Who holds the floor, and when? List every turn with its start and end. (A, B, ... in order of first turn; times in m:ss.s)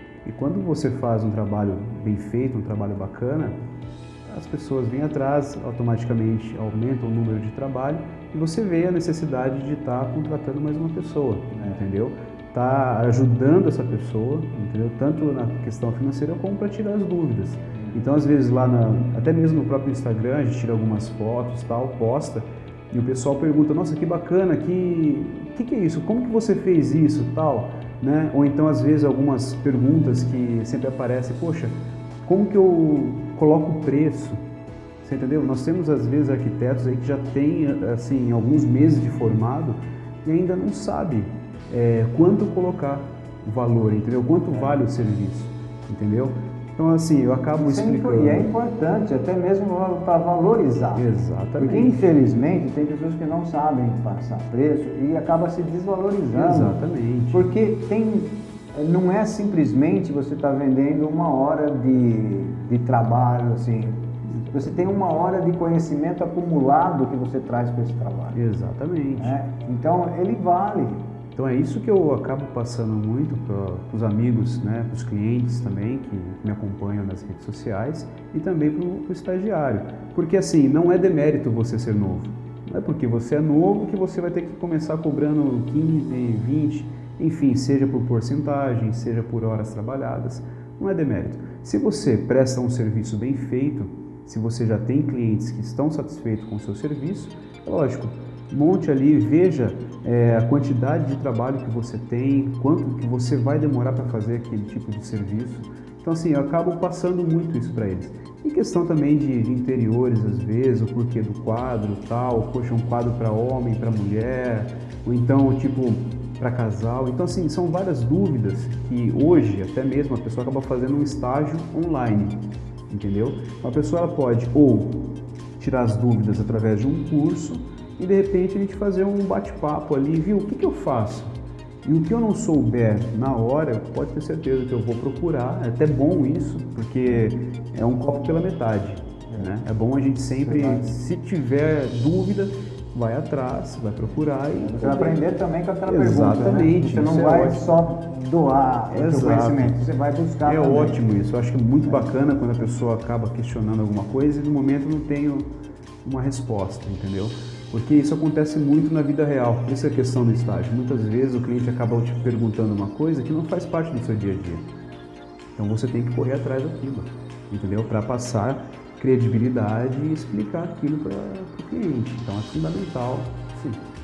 0:00.2-0:03.5 A
0:04.3-0:31.7 A
0:11.6-0:11.8 B
0:17.7-0:18.0 B
0:32.2-0:34.4 A
0:35.0-0:48.5 A
0:44.5-0:44.8 B
0:47.6-0:51.0 B
0:50.9-0:52.0 A
0:51.6-0:56.7 B
0:56.3-0:57.5 A
0:57.3-1:08.4 B
1:08.3-1:09.4 A
1:09.1-1:11.0 B
1:11.3-2:02.4 A
2:02.9-2:04.9 A
2:05.6-2:11.3 A
2:11.8-2:25.2 A
2:20.4-2:20.8 B
2:24.5-2:31.0 B
2:25.8-2:27.6 A
2:28.9-2:29.7 A
2:30.4-2:35.5 A
2:36.0-2:44.6 A
2:45.6-2:53.8 A